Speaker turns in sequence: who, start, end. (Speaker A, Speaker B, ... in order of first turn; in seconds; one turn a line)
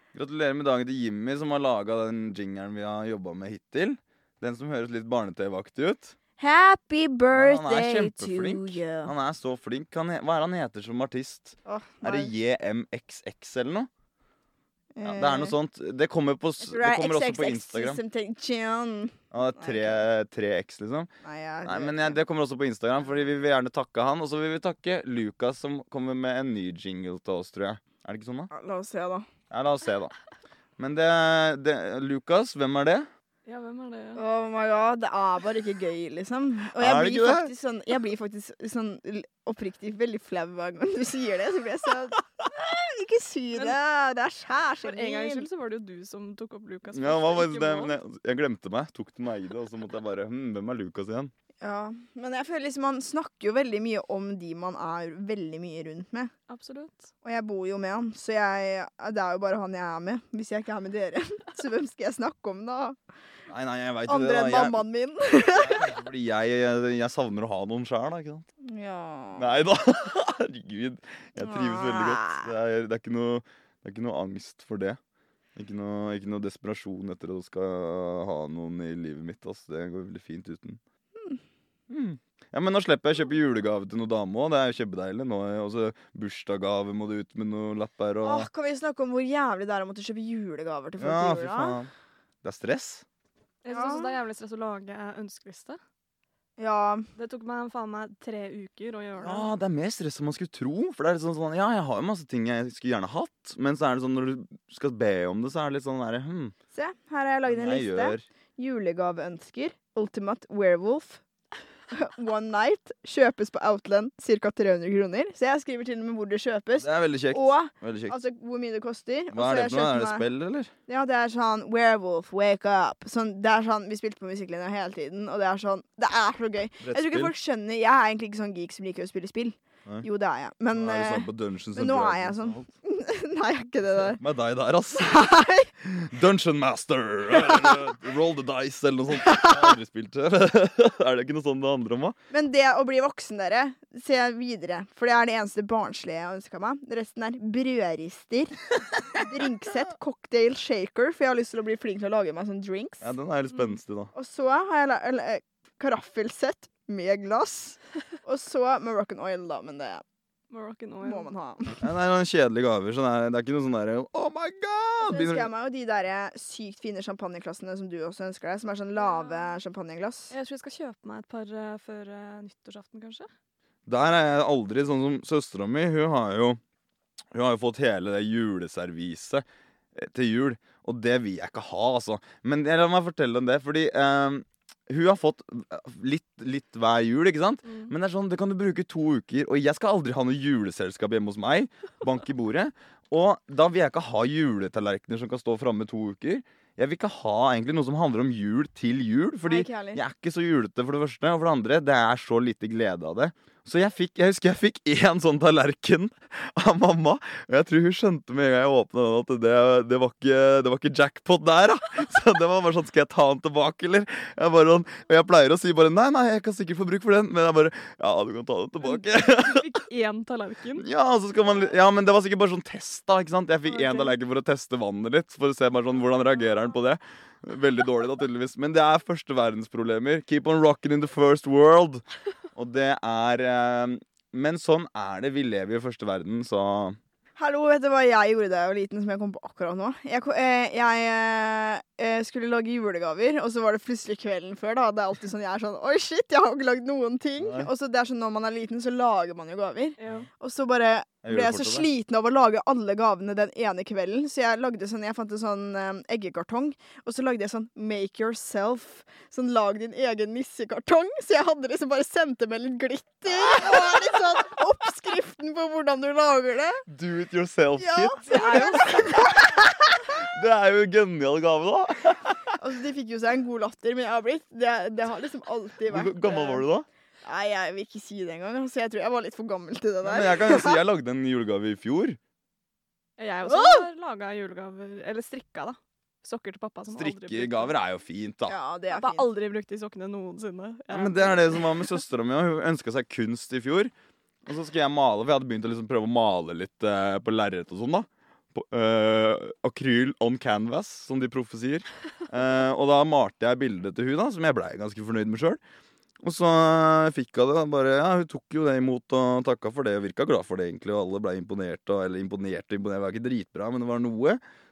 Speaker A: 0.1-6.1
Speaker B: 6.4-9.1
Speaker A: 7.3-13.9
Speaker B: 11.6-12.3
Speaker B: 14.9-15.5
Speaker A: 15.0-18.0
Speaker B: 16.6-20.0
Speaker A: 19.3-21.1
Speaker B: 21.2-22.2
Speaker A: 21.6-28.5
Speaker B: 28.5-29.2
Speaker A: 29.5-30.1
Speaker A: 30.8-33.1
Speaker C: 33.5-34.2
Speaker B: 34.1-45.5
Speaker A: 36.8-37.5
Speaker C: 44.8-48.0
Speaker A: 46.9-51.3
Speaker B: 51.6-56.3
Speaker C: 56.5-57.1
Speaker B: 57.2-63.0
Speaker A: 63.5-64.8
Speaker B: 64.1-65.9
Speaker A: 65.5-68.5
Speaker B: 68.6-69.5
Speaker A: 69.3-75.0
Speaker B: 71.4-72.5
Speaker A: 75.5-80.8
Speaker A: 81.9-88.5
Speaker B: 88.2-91.8
Speaker A: 91.0-91.9
Speaker A: 92.4-93.0
Speaker C: 93.6-95.8
Speaker B: 93.7-94.2
Speaker B: 96.6-97.0
Speaker C: 97.2-99.5
Speaker A: 99.2-106.5
Speaker B: 106.7-111.2
Speaker A: 107.5-108.2
Speaker B: 111.9-120.2
Speaker A: 116.8-118.2
Speaker A: 119.3-120.7
Speaker B: 120.9-134.2
Speaker A: 126.8-127.3
Speaker A: 130.7-132.7
Speaker A: 133.9-135.2
Speaker B: 134.9-135.7
Speaker A: 135.8-142.2
Speaker B: 137.3-137.9
Speaker B: 139.1-139.8
Speaker B: 142.3-153.1
Speaker A: 153.0-154.1
Speaker B: 154.1-160.0
Speaker C: 160.5-161.3
Speaker B: 161.0-161.8
Speaker A: 161.8-165.5
Speaker B: 165.0-170.3
Speaker C: 169.0-169.6
Speaker C: 170.3-173.3
Speaker A: 173.8-176.6
Speaker A: 177.3-219.7
Speaker C: 187.7-187.9
Speaker B: 199.4-200.0
Speaker C: 218.9-220.8
Speaker A: 220.8-232.0
Speaker C: 223.7-224.1
Speaker A: 232.5-237.0
Speaker B: 237.4-266.8
Speaker A: 247.4-247.7
Speaker C: 250.0-250.2
Speaker A: 251.2-251.9
Speaker A: 266.9-272.5
Speaker B: 267.8-269.7
Speaker C: 268.3-269.1
Speaker B: 272.6-276.6
Speaker A: 275.9-276.9
Speaker B: 277.2-280.8
Speaker A: 280.0-282.2
Speaker C: 283.2-287.7
Speaker B: 283.4-283.9
Speaker A: 286.9-288.6
Speaker B: 288.5-289.3
Speaker C: 288.9-291.9
Speaker A: 290.9-293.9
Speaker A: 294.4-305.6
Speaker A: 306.2-314.4